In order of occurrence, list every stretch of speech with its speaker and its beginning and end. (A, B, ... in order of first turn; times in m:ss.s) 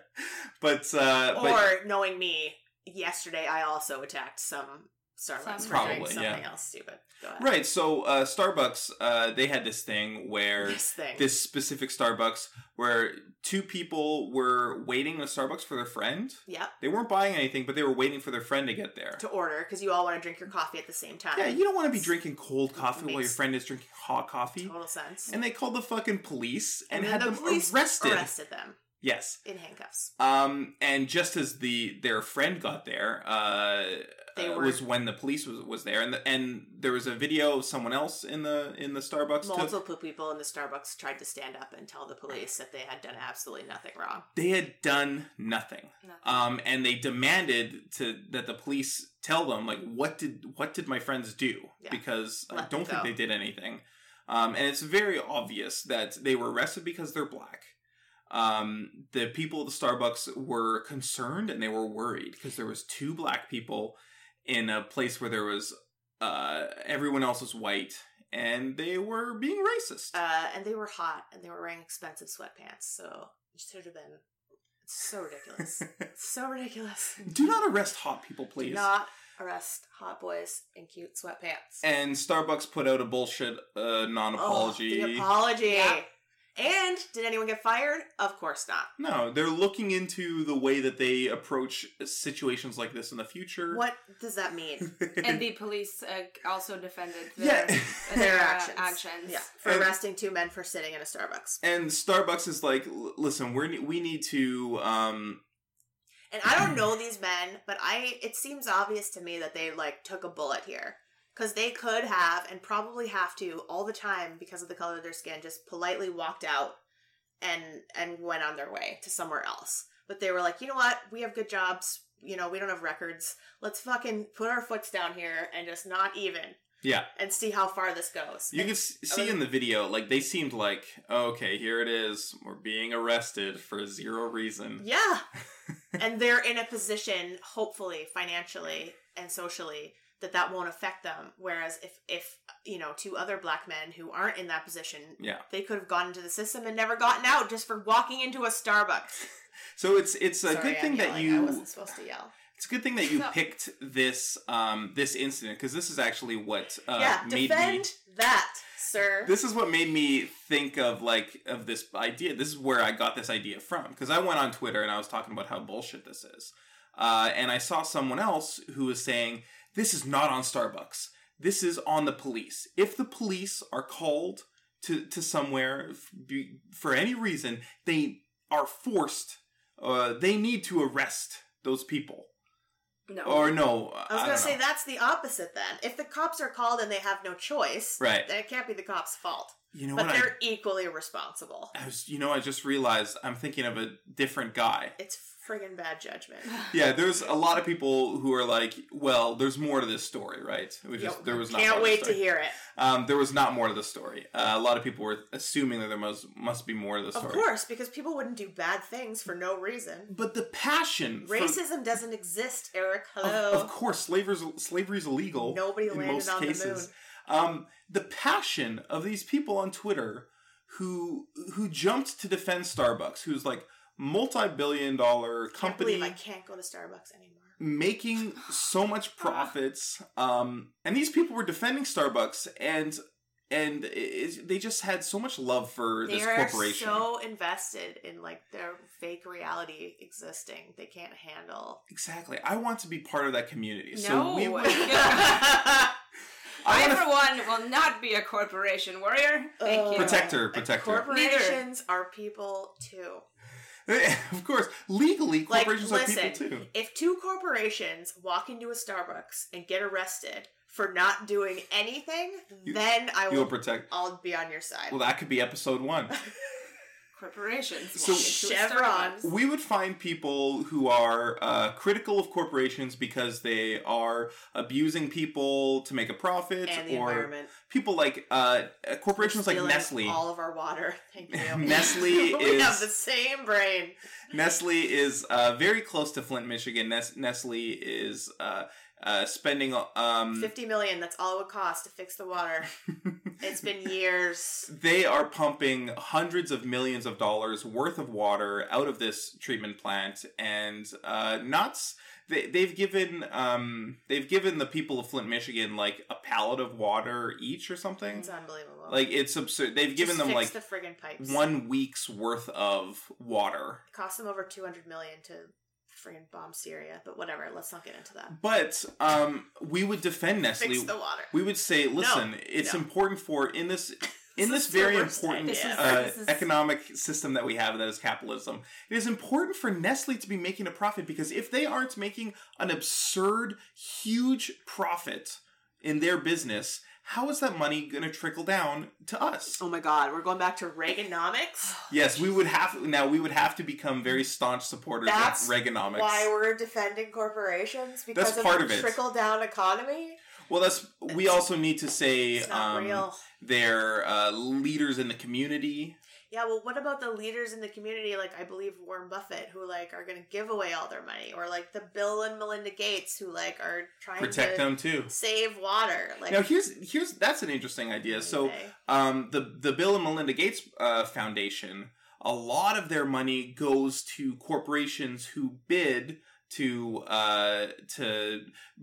0:00.2-0:01.7 A
0:01.3-0:07.5 B
0:05.4-0:06.0 C
0:05.6-0:06.4 A
0:07.4-0:19.2 A
0:10.6-0:11.3 B
0:16.5-0:16.7 B
0:19.2-0:22.1 B
0:21.4-0:24.7 A
0:22.8-0:23.4 B
0:24.6-0:25.4 B
0:25.3-0:28.3 A
0:26.9-0:28.8 B
0:29.0-0:29.4 A
0:29.4-0:30.1 B
0:30.2-0:39.7 A
0:34.4-0:34.8 B
0:39.4-0:44.3 B
0:44.4-0:57.8 A
0:46.0-0:46.5 C
0:51.8-0:53.1 B
0:58.3-1:10.1 A
1:10.1-1:14.2 B
1:14.9-1:17.3 B
1:17.2-1:18.9 A
1:18.6-1:21.8 B
1:21.8-1:25.3 A
1:24.4-1:26.1 B
1:25.6-1:26.0 C
1:26.6-1:28.9 B
1:29.0-1:33.8 A
1:33.7-1:34.9 B
1:35.0-1:35.4 A
1:35.2-1:39.4 C
1:37.4-1:38.2 A
1:38.1-1:41.6 B
1:41.6-1:45.4 A
1:46.3-1:56.8 B
1:57.4-2:06.6 B
2:06.8-2:07.1 A
2:07.1-2:09.4 B
2:08.5-2:14.8 A
2:14.8-2:15.2 B
2:16.0-2:29.2 B
2:29.8-2:31.7 A
2:30.5-2:32.3 B
2:32.6-2:37.9 A
2:33.1-2:33.4 C
2:37.0-2:39.3 B
2:39.2-3:02.3 A
3:03.1-3:03.6 C
3:03.2-3:04.6 A
3:04.1-3:11.7 B
3:08.0-3:08.3 A
3:09.7-3:10.3 A
3:11.7-3:15.0 A
3:15.0-3:16.6 B
3:16.7-3:27.4 A
3:21.0-3:22.6 B
3:27.1-3:30.1 B
3:30.1-3:31.6 A
3:31.2-3:33.7 B
3:33.2-3:46.2 A
3:35.4-3:36.9 B
3:45.5-3:47.6 B
3:47.6-3:57.1 A
3:56.0-4:01.8 B
4:01.9-4:05.5 A
4:03.9-4:05.7 C
4:04.7-4:05.9 B
4:06.6-4:07.1 A
4:06.6-4:10.3 C
4:09.6-4:13.2 B
4:10.0-4:11.1 A
4:11.1-4:11.6 C
4:13.9-4:16.7 A
4:15.5-4:25.0 B
4:22.7-4:23.9 A
4:24.9-4:26.1 A
4:27.1-4:29.3 C
4:28.0-4:28.3 A
4:28.0-4:29.3 B
4:29.2-4:40.2 A
4:36.7-4:37.5 B
4:39.2-4:44.0 B
4:41.3-4:42.9 A
4:44.3-4:50.5 A
4:50.3-4:52.7 B
4:53.4-4:54.7 B
4:54.7-5:08.3 A
5:08.1-5:09.1 B
5:08.9-5:10.5 A
5:10.0-5:11.5 B
5:11.2-5:13.8 A
5:13.9-5:18.4 B
5:18.3-5:39.6 A
5:20.6-5:21.3 B
5:22.0-5:22.8 B
5:24.4-5:26.0 B
5:25.5-5:26.5 C
5:39.6-5:41.9 B
5:41.9-5:46.3 A
5:45.0-5:50.2 B
5:48.1-5:49.0 A
5:50.5-5:56.0 A
5:52.4-5:53.2 B
5:56.3-6:06.4 B
6:04.2-6:05.1 A
6:06.3-6:18.6 A
6:08.1-6:08.7 B